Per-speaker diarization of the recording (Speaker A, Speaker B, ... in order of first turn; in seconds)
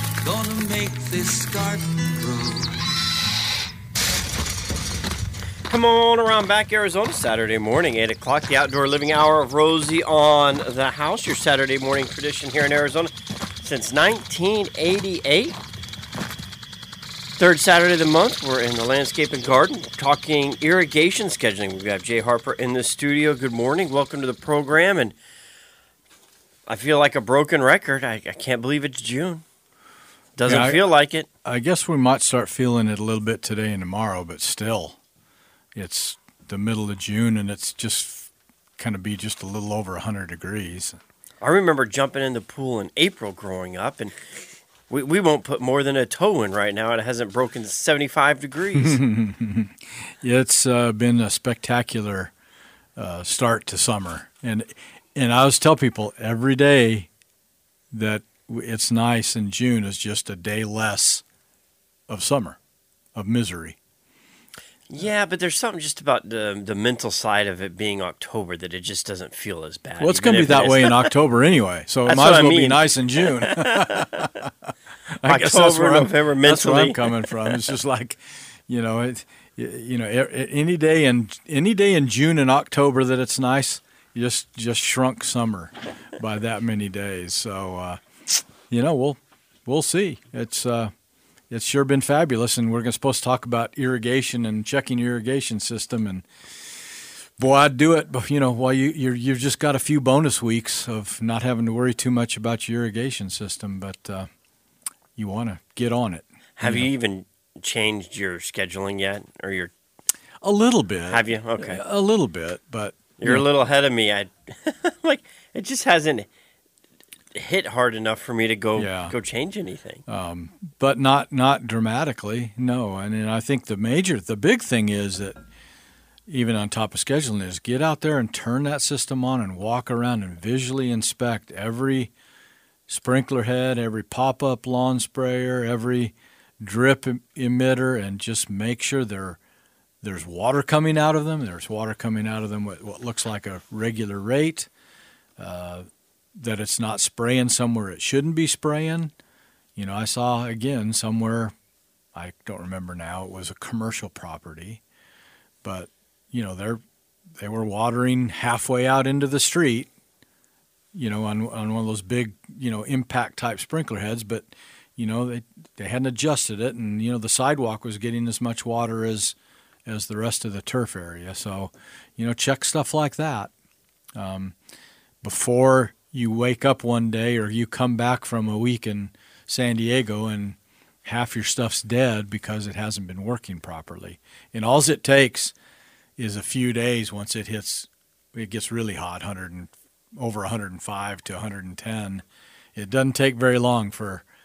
Speaker A: 0.2-2.7
Speaker B: 5.7-15.6, 17.4-25.1, 26.7-29.4, 30.4-31.3, 41.4-44.1, 44.9-49.0, 64.9-71.1, 72.0-74.3, 75.2-77.5, 106.6-109.7, 111.1-111.8, 113.2-116.3, 117.3-120.0
Speaker C: 30.4-30.9, 31.4-35.0, 35.7-41.0, 48.8-52.3, 53.0-57.1, 57.9-61.2, 62.1-62.6, 63.1-63.8, 70.0-90.9, 91.5-104.3, 105.2-106.9, 110.4-113.5, 118.7-119.1, 120.1-125.4, 126.3-132.1, 132.9-139.4, 140.0-144.7, 145.4-149.1, 149.8-151.5, 152.1-154.8, 155.6-156.8, 157.3-159.9, 160.9-173.5, 174.2-174.5, 175.2-185.5, 186.2-194.2